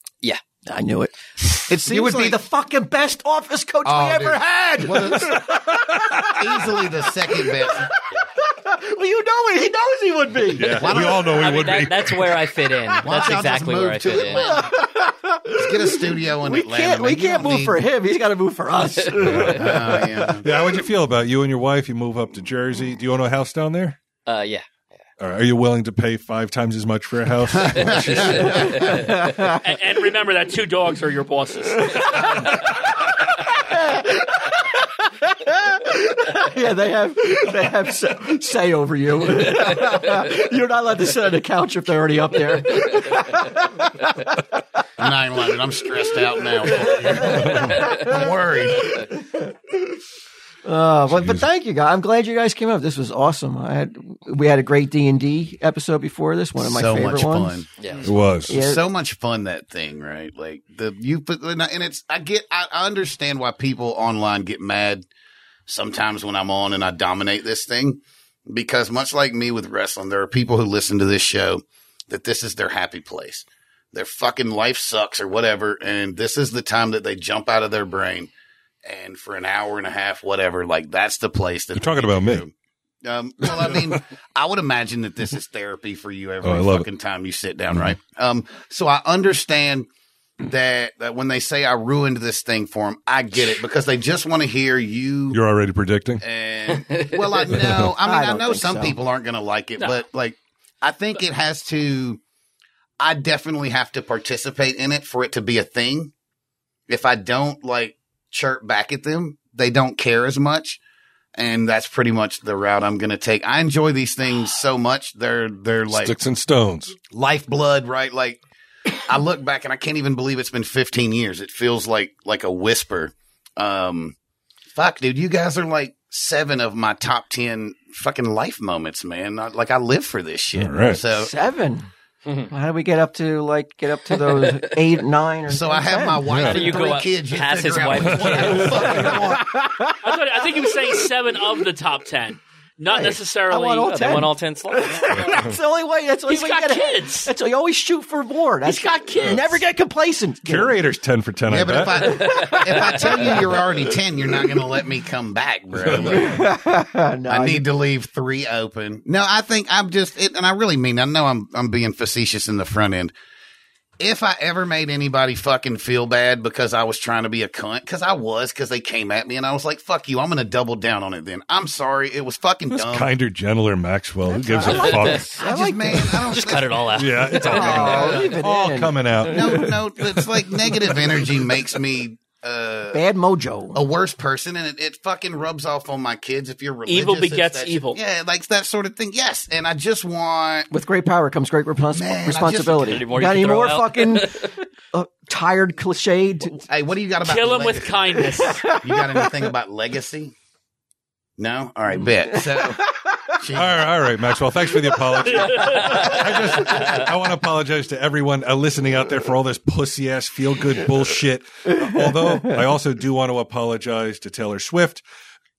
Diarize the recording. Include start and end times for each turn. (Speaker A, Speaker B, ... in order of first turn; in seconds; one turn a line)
Speaker A: 0.7-11.0
Speaker B: 1.7-2.4
Speaker B: 3.8-5.4
Speaker C: 5.3-6.2
Speaker B: 6.2-7.9
Speaker C: 10.5-12.5
Speaker B: 10.6-11.7
Speaker D: 11.0-14.5
Speaker B: 13.0-14.8
Speaker A: 14.4-20.4
Speaker B: 15.6-17.8
Speaker C: 19.2-19.7
Speaker B: 19.4-20.5
Speaker C: 20.4-24.0
Speaker D: 24.2-24.6
Speaker C: 25.2-28.7
Speaker B: 27.5-29.0
Speaker D: 27.8-29.0
Speaker A: 28.3-29.6
Speaker E: 29.5-32.5
Speaker A: 31.8-44.6
Speaker D: 42.8-43.2
Speaker B: 45.0-49.1
Speaker A: 46.7-49.7
Speaker A: 50.6-57.6
Speaker C: 51.1-51.5
Speaker B: 56.6-65.1
Speaker D: 57.8-58.1
Speaker C: 58.0-58.6
Speaker A: 58.5-58.8
Speaker B: 65.7-78.3
Speaker B: 78.8-82.5
Speaker C: 81.7-82.5
Speaker B: 83.0-89.9
Speaker C: 83.4-84.0
Speaker C: 86.4-86.9
Speaker B: 90.4-95.4
Speaker C: 95.3-96.2
Speaker B: 96.2-102.2
Speaker D: 96.7-97.4
Speaker A: 98.0-99.0
Speaker B: 103.0-106.1
Speaker B: 106.9-110.8
Speaker B: 111.3-116.2
Speaker C: 115.9-117.0
Speaker B: 117.1-118.4
Speaker B: 119.0-124.1
Speaker B: 124.7-131.3
Speaker C: 130.5-131.0
Speaker A: 131.1-131.9
Speaker A: 132.5-136.2
Speaker B: 135.5-139.5
Speaker C: 136.2-136.7
Speaker D: 136.4-139.1
Speaker C: 138.2-139.0
Speaker A: 138.9-141.1
Speaker E: 140.0-144.2
Speaker A: 142.9-150.7
Speaker D: 143.9-145.0
Speaker C: 145.2-145.5
Speaker E: 146.3-147.3
Speaker E: 148.6-149.6
Speaker C: 150.4-152.2
Speaker B: 151.5-156.5
Speaker D: 152.0-153.4
Speaker C: 155.8-156.2
Speaker A: 156.0-157.6
Speaker B: 157.3-163.1
Speaker B: 164.0-173.1
Speaker C: 172.7-175.3
Speaker A: 174.3-176.4
Speaker D: 174.7-175.2
Speaker B: 175.3-176.8
Speaker D: 176.1-178.3
Speaker C: 176.9-179.8
Speaker A: 177.4-179.7
Speaker B: 177.5-178.3
Speaker B: 179.2-183.0
Speaker A: 180.7-181.1
Speaker A: 182.9-183.8
Speaker B: 183.7-190.7
Speaker E: 186.8-188.0
Speaker A: 190.7-196.6
Speaker B: 191.9-193.0
Speaker D: 192.9-194.6
Speaker B: 196.7-200.3
Speaker E: 197.2-198.8
Speaker A: 198.2-199.5
Speaker B: 201.4-203.9
Speaker A: 202.3-203.4
Speaker C: 203.5-215.0
Speaker E: 205.3-206.0
Speaker D: 205.6-206.9
Speaker A: 211.7-212.6